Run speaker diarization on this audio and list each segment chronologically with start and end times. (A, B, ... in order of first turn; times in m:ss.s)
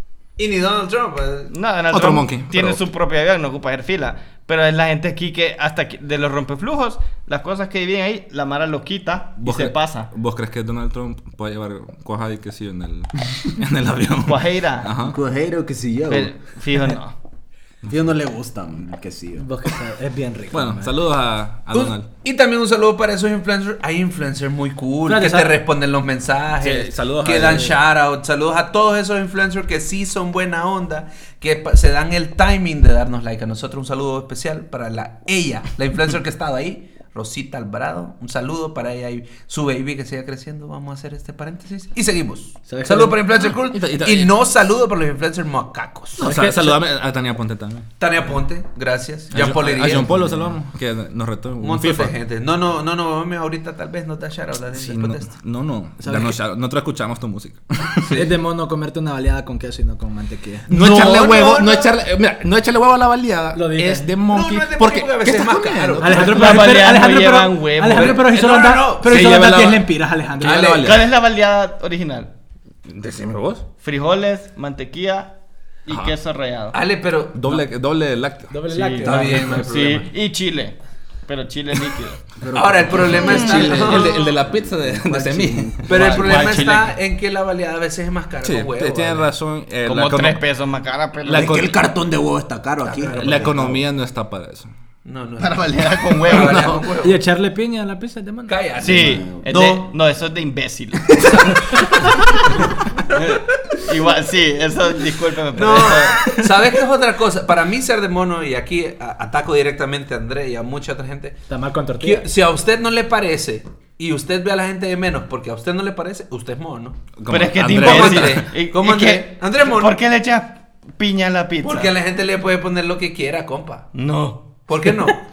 0:00.4-0:01.5 A
0:01.5-0:10.1 B
0:01.9-0:02.8 C
0:09.4-0:15.2 C
0:14.2-0:14.9 B
0:15.0-0:16.3 D
0:16.1-0:17.1 B
0:17.9-0:19.4 D
0:19.4-0:20.9 E
0:20.5-0:22.1 C
0:21.7-0:46.3 A
0:25.0-0:25.6 E
0:26.6-0:27.8 C
0:42.7-0:43.2 E
0:43.5-0:44.3 C
0:46.2-0:47.9 C
0:46.2-0:46.8 E
0:48.0-0:50.2 A
0:49.3-0:52.1 C
0:51.6-0:55.3 A
0:54.7-0:58.2 C
0:56.0-0:56.4 E
0:58.1-1:00.8 E
1:00.7-1:06.6 C
1:00.7-1:01.9 A
1:03.5-1:04.1 E
1:04.2-1:06.7 A
1:06.0-1:10.9 E
1:06.1-1:08.2 B
1:07.9-1:09.3 A
1:09.0-1:09.8 C
1:10.4-1:11.0 A
1:10.4-1:10.8 C
1:10.8-1:12.3 B
1:12.8-1:13.6 C
1:13.8-1:15.3 B
1:15.8-1:16.8 B
1:15.9-1:16.1 C
1:16.7-1:17.6 A
1:17.3-1:18.6 C
1:18.5-1:20.0 E
1:18.7-1:20.8 B
1:19.0-1:20.1 A
1:21.3-1:22.2 B
1:22.4-1:26.3 D
1:22.5-1:24.3 A
1:23.0-1:25.9 C
1:25.9-1:29.3 A
1:25.9-1:26.9 B
1:28.4-1:30.4 C
1:29.8-1:31.7 B
1:31.2-1:31.8 C
1:31.3-1:33.8 D
1:33.1-1:34.7 C
1:35.0-1:37.2 A
1:35.4-1:36.8 B
1:36.3-1:36.8 C
1:37.0-1:38.5 E
1:38.5-1:39.8 A
1:38.8-1:41.9 B
1:38.9-1:39.5 D
1:41.2-1:42.0 A
1:42.6-1:43.2 A
1:43.1-1:46.4 B
1:45.5-1:51.4 A
1:51.5-1:52.3 E
1:52.0-1:57.0 A
1:57.2-1:58.5 C
1:57.3-2:01.9 B
1:57.7-2:00.0 A
2:01.6-2:03.9 A
2:03.9-2:04.9 B
2:04.7-2:05.2 A